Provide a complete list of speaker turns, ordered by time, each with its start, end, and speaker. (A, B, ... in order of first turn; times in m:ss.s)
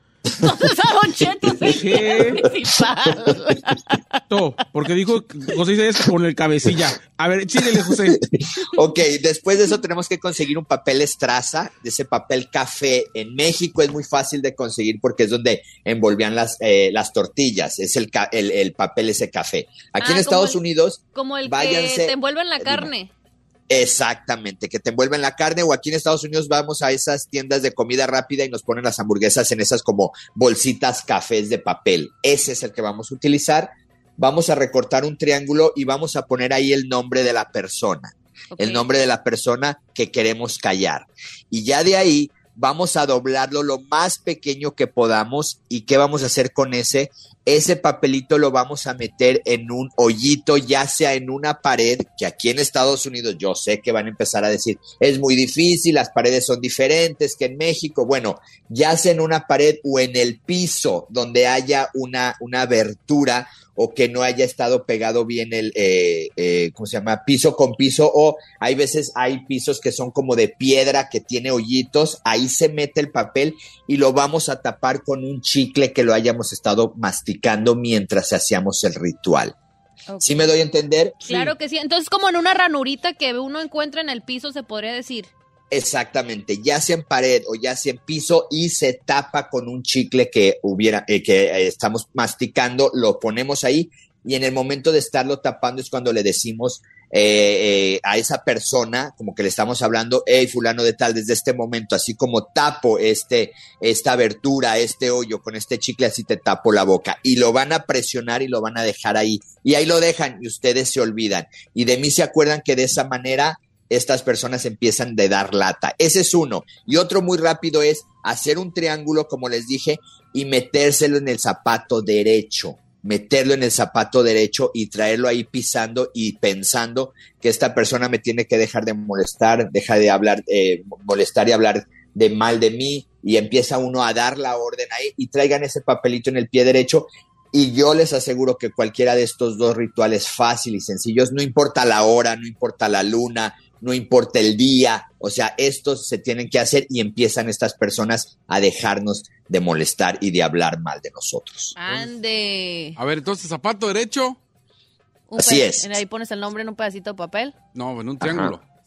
0:00.4-0:04.0 A
0:01.6-0:02.4 B
0:04.3-0:08.2 B
0:08.1-0:22.9 C
0:20.0-0:20.6 A
0:21.2-0:23.1 A
0:23.7-1:19.6 C
0:38.5-0:38.9 A
1:20.1-1:20.5 A
1:20.2-1:21.5 C
1:21.2-1:25.3 A
1:25.7-2:31.8 C
2:31.8-2:33.0 A
2:33.0-2:34.4 D
2:35.3-2:37.6 A
2:35.4-2:36.0 C
2:37.7-2:38.6 D
2:38.2-2:38.6 C